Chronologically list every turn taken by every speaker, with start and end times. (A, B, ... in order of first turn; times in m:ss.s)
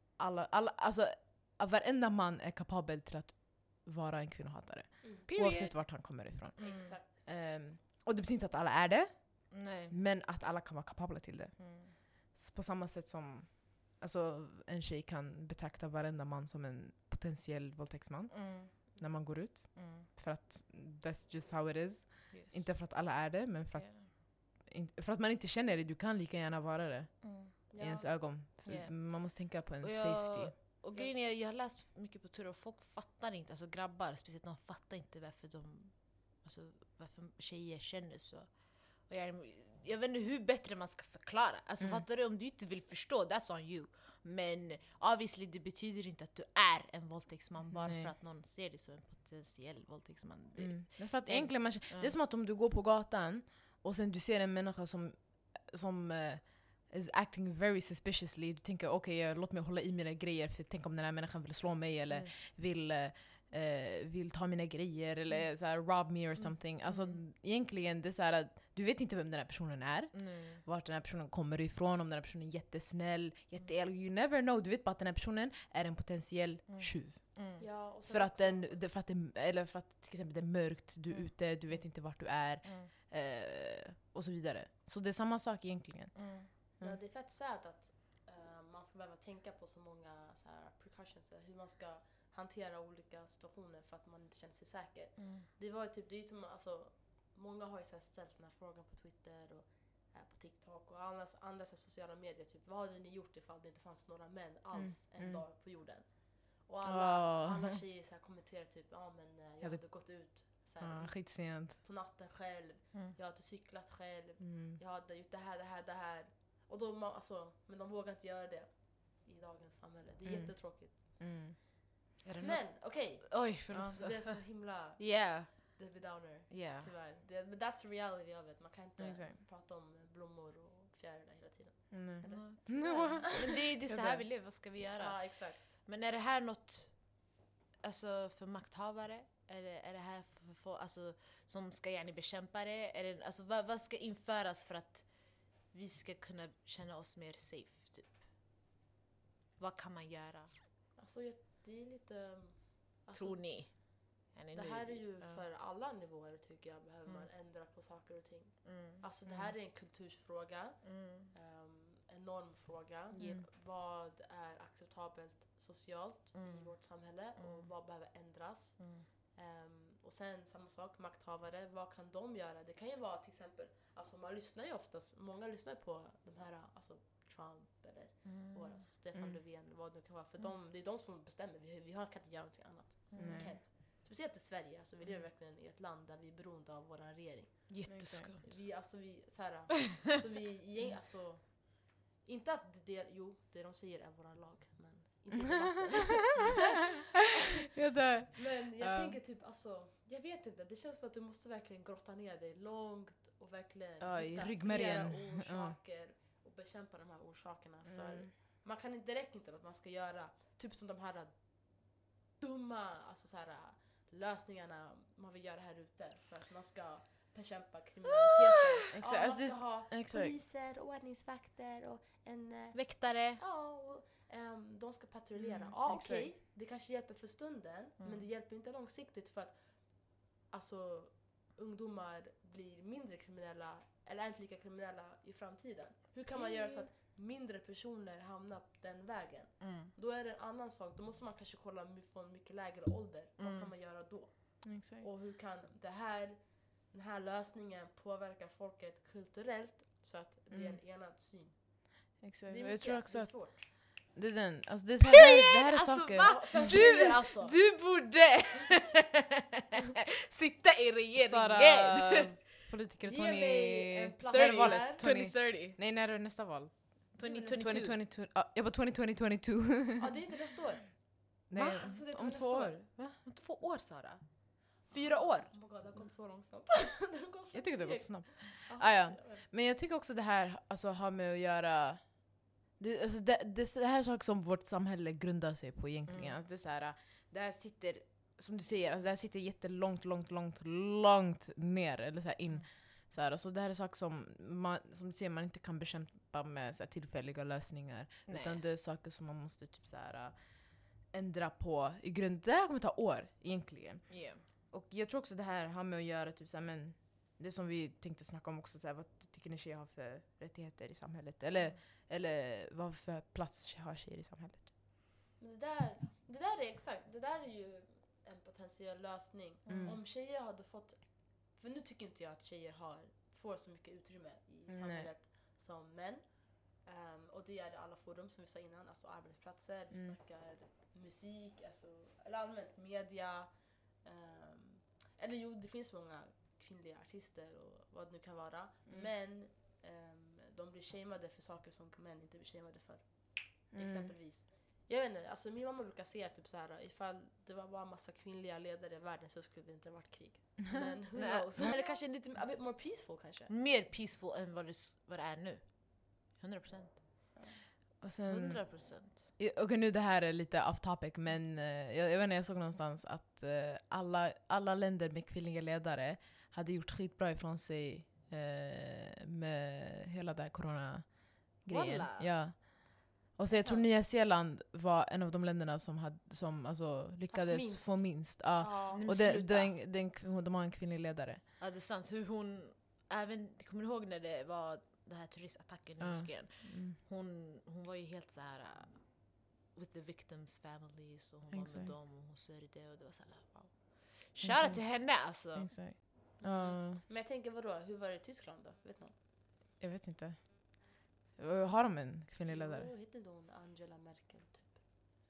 0:00.2-0:30.6 A
0:05.3-0:06.9 B
0:06.6-0:07.2 C
0:09.5-0:09.9 B
0:11.6-0:11.9 B
0:18.3-0:19.0 B
0:19.7-0:20.1 B
0:22.3-0:23.1 B
0:23.7-0:24.1 B
0:27.2-0:27.5 B
0:27.7-0:28.4 C
0:28.6-0:52.2 B
0:41.8-0:42.0 A
0:47.7-0:48.1 A
0:50.6-1:27.0 A
1:02.1-1:02.3 B
1:05.4-1:07.2 B
1:10.1-1:10.6 B
1:16.7-1:17.6 B
1:17.6-1:18.8 C
1:21.1-1:22.9 B
1:26.1-1:26.5 B
1:26.8-2:01.6 C
1:35.2-1:35.5 B
1:44.7-1:45.4 A
1:46.8-1:47.8 A
1:49.6-1:51.8 A
1:54.4-1:54.8 A
2:00.2-2:01.6 A
2:02.2-2:04.4 B
2:02.4-2:13.4 C
2:03.7-2:04.0 A
2:05.0-2:06.9 B
2:09.0-2:09.4 A
2:11.9-2:14.3 A
2:12.2-2:28.3 B
2:15.0-2:15.7 C
2:29.6-2:30.6 B
2:31.0-3:17.0 C
2:33.1-2:35.4 B
2:38.6-2:39.5 B
2:40.8-2:41.3 B
2:43.1-2:43.5 A
2:46.3-2:47.7 B
2:48.8-2:49.1 B
2:58.2-2:59.4 B
3:03.1-3:03.6 B
3:03.2-3:03.6 A
3:07.7-3:08.6 B
3:07.9-3:08.3 A
3:15.6-3:16.0 A
3:17.7-3:19.2 A
3:18.3-4:13.7 C
3:24.0-3:25.8 A
3:27.8-3:28.3 A
3:38.9-3:40.3 A
3:42.7-3:43.4 B
3:45.4-3:46.3 A
3:48.0-3:48.2 B
3:56.4-3:56.9 B
3:59.6-3:59.9 B
4:03.4-4:03.7 B
4:04.6-4:05.1 A
4:10.5-4:10.8 A
4:12.2-4:17.0 A
4:15.0-4:19.1 B
4:16.2-4:17.6 C
4:20.3-4:22.5 B
4:21.2-4:30.3 A
4:23.0-4:25.1 C
4:24.3-4:25.8 B
4:27.2-4:28.0 B
4:27.2-4:27.6 C
4:30.0-4:32.8 C
4:31.5-4:33.2 A
4:31.5-4:32.0 B
4:33.2-4:35.8 B
4:34.9-4:39.4 C
4:37.5-5:14.7 A
4:46.1-4:46.4 B
4:58.3-4:58.6 B
5:04.1-5:04.4 B
5:15.4-5:53.5 C
5:19.7-5:20.0 A
5:24.7-5:25.1 A
5:29.9-5:30.2 A
5:43.7-5:44.1 A
5:51.1-5:51.7 B
5:53.5-5:57.3 B
5:58.0-6:21.4 A
5:58.3-5:59.2 B
6:11.7-6:12.3 B
6:13.5-6:13.8 C
6:17.3-6:19.0 C
6:18.9-6:19.8 B
6:21.6-6:35.7 B
6:26.0-6:27.0 A
6:31.5-6:31.9 A
6:34.4-6:37.0 A
6:36.4-6:39.2 C
6:39.8-6:42.9 A
6:42.5-6:44.8 C